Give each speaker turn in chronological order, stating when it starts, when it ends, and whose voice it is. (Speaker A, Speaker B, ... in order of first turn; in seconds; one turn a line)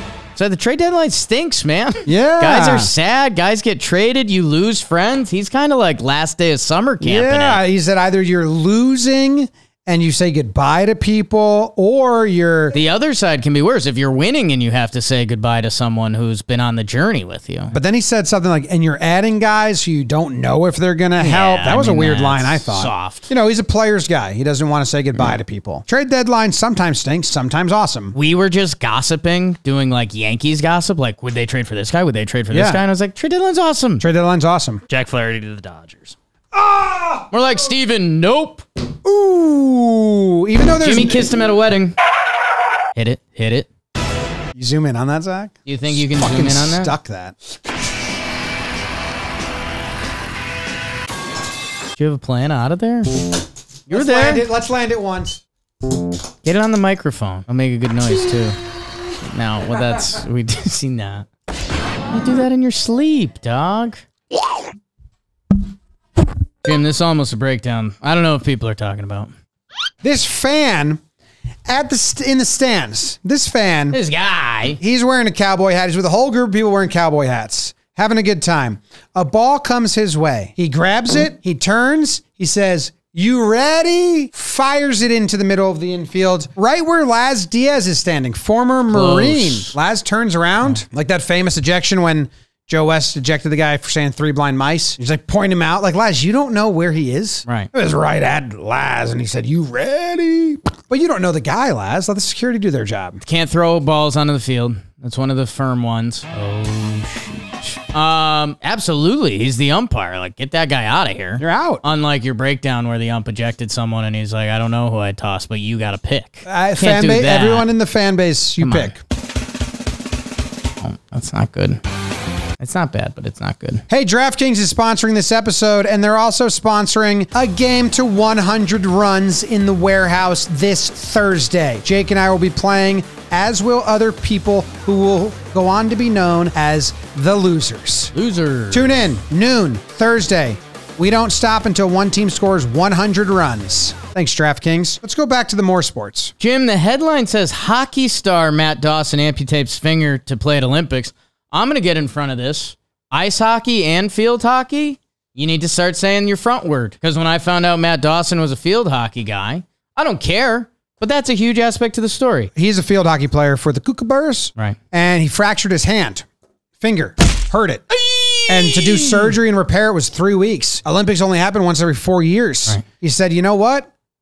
Speaker A: 0.3-7.6
Speaker B: 2.0-2.9
Speaker B: 7.0-12.8
Speaker A: 12.7-17.7
Speaker B: 17.7-28.1
Speaker A: 21.2-23.3
Speaker A: 28.1-34.0
Speaker B: 32.5-32.8
Speaker B: 34.0-34.8
Speaker A: 34.9-36.1
Speaker B: 36.5-37.3
Speaker A: 37.3-38.7
Speaker B: 39.0-41.3
Speaker A: 40.7-41.9
Speaker A: 42.9-43.7
Speaker B: 44.5-47.3
Speaker A: 45.7-46.9
Speaker A: 52.0-53.2
Speaker A: 53.9-54.5
Speaker B: 53.9-55.4
Speaker A: 56.4-58.6
Speaker A: 59.3-61.3
Speaker A: 62.1-64.0
Speaker A: 66.6-69.3
Speaker B: 70.0-71.0
Speaker B: 71.7-74.0
Speaker A: 73.9-74.8
Speaker B: 74.8-103.2
Speaker A: 88.9-89.7
Speaker A: 103.2-117.7
Speaker B: 111.4-111.8
Speaker B: 116.5-119.0
Speaker A: 118.6-118.9
Speaker A: 120.8-121.8
Speaker A: 122.6-123.8
Speaker B: 123.9-138.1
Speaker A: 138.1-139.0
Speaker B: 138.7-146.3
Speaker A: 146.4-162.5
Speaker B: 162.6-166.2
Speaker B: 166.8-167.8
Speaker A: 168.0-169.4
Speaker B: 168.5-173.9